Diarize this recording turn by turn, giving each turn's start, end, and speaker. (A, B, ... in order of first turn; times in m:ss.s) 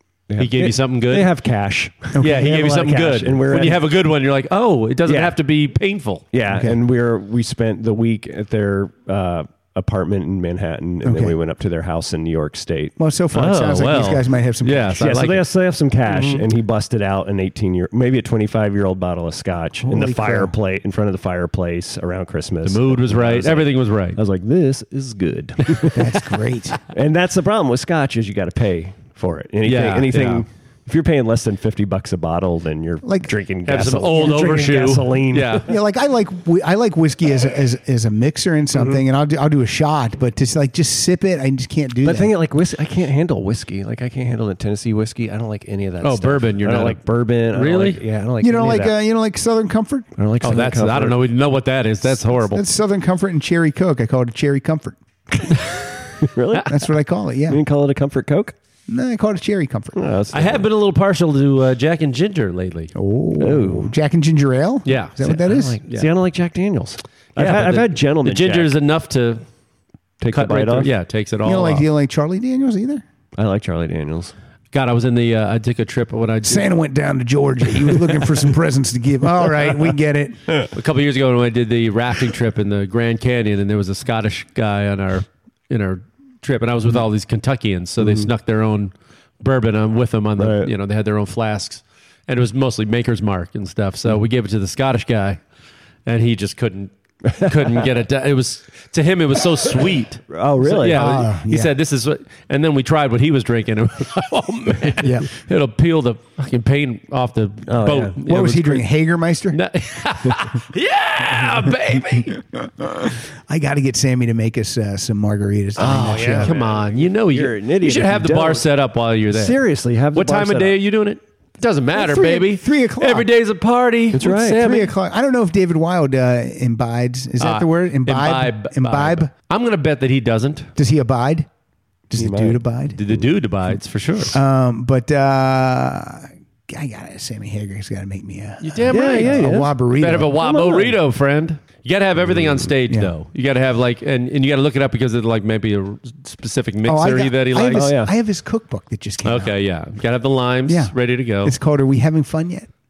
0:00.3-0:03.9 A
0:00.4-0:01.3 B
0:02.2-0:06.2 B
0:05.0-0:05.4 A
0:06.3-0:13.0 A
0:06.5-0:06.8 C
0:11.0-0:11.4 C
0:13.0-0:15.2 C
0:13.3-0:15.4 B
0:14.9-0:26.1 A
0:16.1-0:16.4 B
0:19.8-0:20.5 C
0:22.6-0:24.2 B
0:25.9-0:26.8 C
0:26.9-0:35.6 A
0:29.6-0:30.4 B
0:33.0-0:33.4 C
0:33.6-0:35.6 B
0:35.7-0:42.3 C
0:38.7-0:39.0 A
0:42.0-0:49.0 A
0:46.0-0:48.0 B
0:48.4-0:50.1 C
0:50.2-0:51.2 A
0:50.4-0:52.6 B
0:52.2-0:55.0 C
0:56.3-0:56.8 A
0:56.6-0:57.6 C
0:57.5-0:58.5 A
0:58.9-1:00.0 C
0:59.9-1:00.7 A
1:00.3-1:02.9 B
1:02.9-1:05.8 C
1:03.4-1:03.9 A
1:04.8-1:06.1 B
1:05.2-1:08.7 A
1:07.3-1:09.4 B
1:10.2-1:10.9 A
1:10.3-1:11.8 B
1:11.4-1:13.0 C
1:13.4-1:14.3 A
1:14.7-1:16.7 B
1:16.4-1:20.4 C
1:20.7-1:35.4 B
1:28.0-1:28.3 A
1:30.4-1:30.7 A
1:36.0-1:48.9 B
1:37.2-1:37.8 A
1:40.3-1:41.1 A
1:40.8-1:41.7 C
1:45.0-1:45.3 C
1:47.7-1:48.2 A
1:48.2-1:49.6 C
1:49.5-1:52.4 B
1:52.0-1:56.5 C
1:55.8-1:58.7 A
1:55.8-1:59.6 B
1:59.3-2:00.8 A
2:00.1-2:04.9 B
2:01.9-2:03.3 C
2:04.1-2:04.7 A
2:04.5-2:09.3 C
2:07.4-2:10.7 B
2:10.8-2:11.5 C
2:12.1-2:13.0 C
2:12.2-2:12.6 A
2:12.9-2:14.3 B
2:14.3-2:20.4 C
2:18.6-2:27.9 B
2:18.9-2:19.7 A
2:20.3-2:21.0 A
2:22.2-2:22.7 A
2:26.8-2:29.5 C
2:27.7-2:28.1 A
2:29.2-2:31.5 B
2:30.7-2:32.7 C